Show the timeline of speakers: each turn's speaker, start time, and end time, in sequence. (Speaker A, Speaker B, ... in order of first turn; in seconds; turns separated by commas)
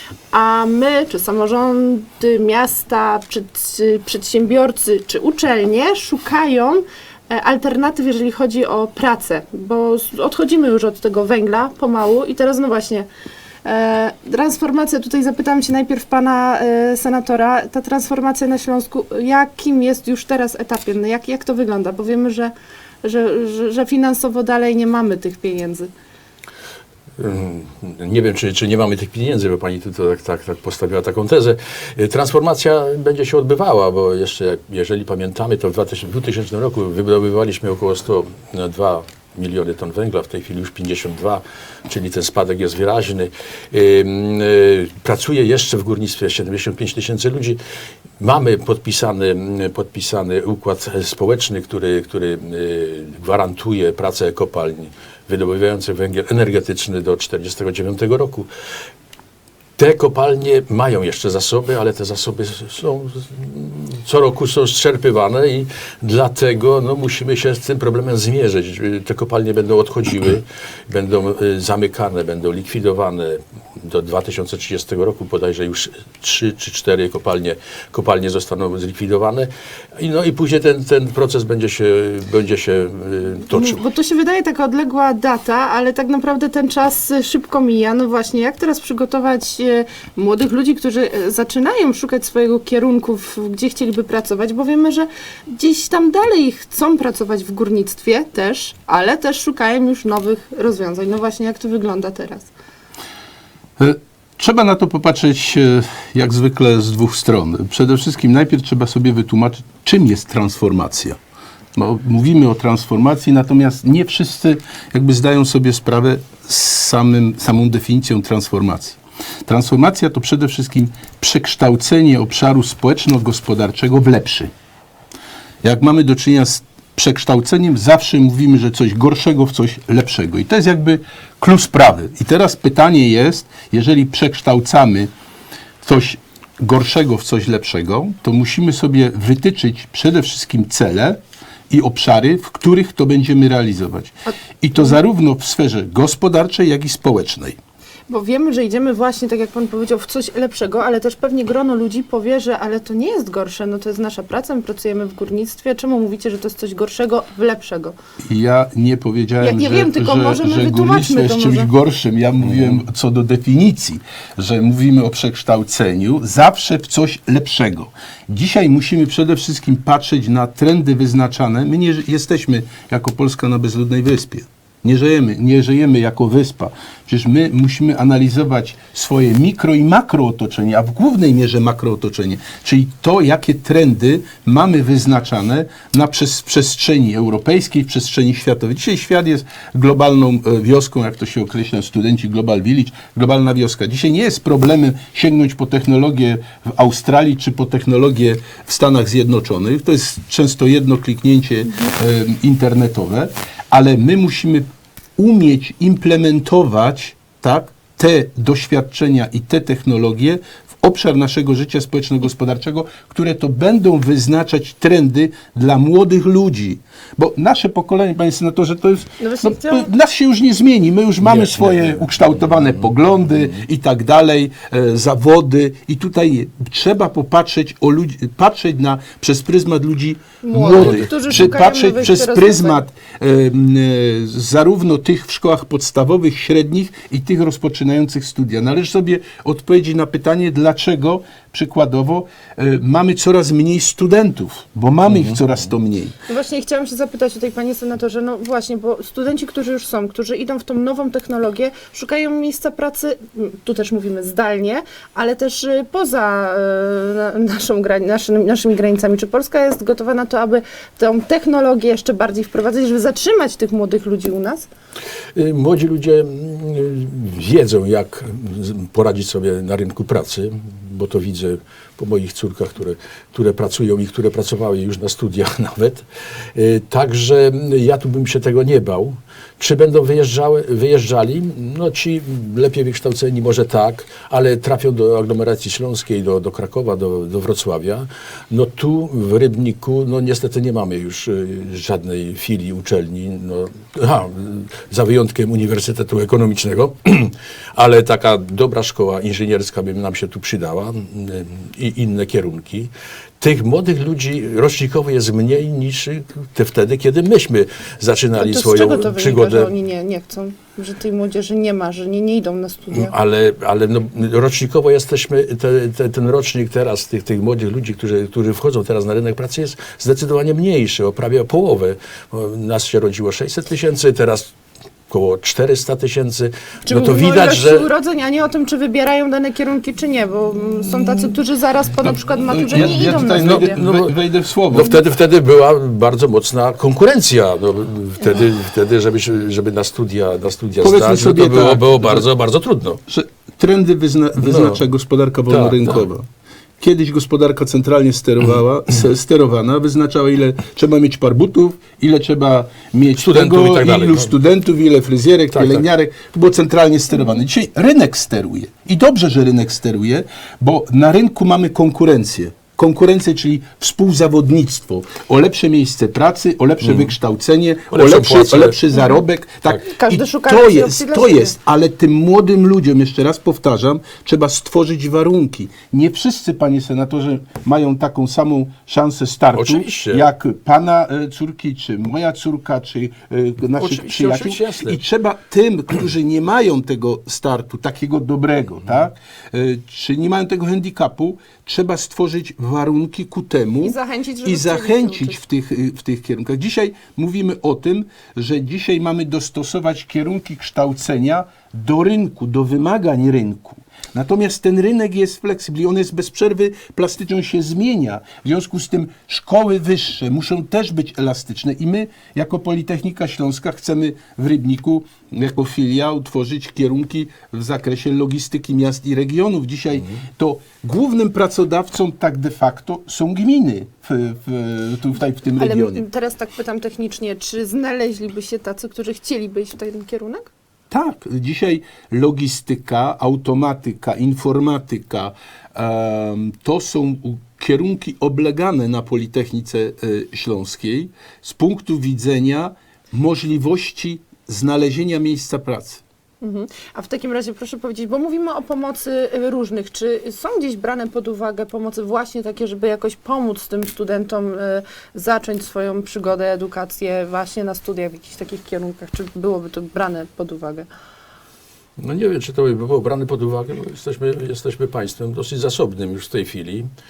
Speaker A: 0.3-13.1, Speaker A: 13.6-22.5, Speaker A: 23.0-25.9, Speaker B: 27.2-47.6, Speaker B: 48.2-58.5, Speaker B: 59.8-83.8, Speaker A: 83.5-102.5, Speaker C: 103.8-111.2, Speaker C: 111.8-124.5, Speaker C: 125.6-135.1, Speaker C: 135.8-141.2, Speaker C: 141.7-147.6, Speaker A: 148.1-157.9, Speaker C: 158.2-204.7, Speaker A: 159.4-161.7, Speaker C: 205.2-246.1, Speaker A: 219.2-219.9, Speaker B: 221.2-222.0, Speaker A: 230.4-232.8, Speaker B: 230.7-231.5, Speaker B: 245.1-245.4, Speaker A: 246.3-264.7, Speaker B: 265.4-309.7, Speaker A: 308.4-313.1, Speaker B: 312.9-324.5, Speaker B: 325.1-327.9, Speaker A: 326.9-333.8, Speaker C: 332.5-335.0, Speaker B: 332.7-343.0, Speaker C: 340.8-342.2, Speaker C: 343.1-346.2, Speaker B: 344.4-344.8, Speaker B: 345.5-346.1, Speaker C: 346.8-426.0, Speaker B: 353.1-354.3, Speaker B: 355.5-355.9, Speaker B: 366.8-367.1, Speaker B: 367.9-368.8, Speaker A: 369.8-371.5, Speaker B: 379.5-380.3, Speaker B: 383.8-385.0, Speaker A: 393.8-395.4, Speaker A: 425.6-430.5, Speaker C: 430.9-446.0, Speaker A: 446.4-460.9, Speaker B: 462.0-466.9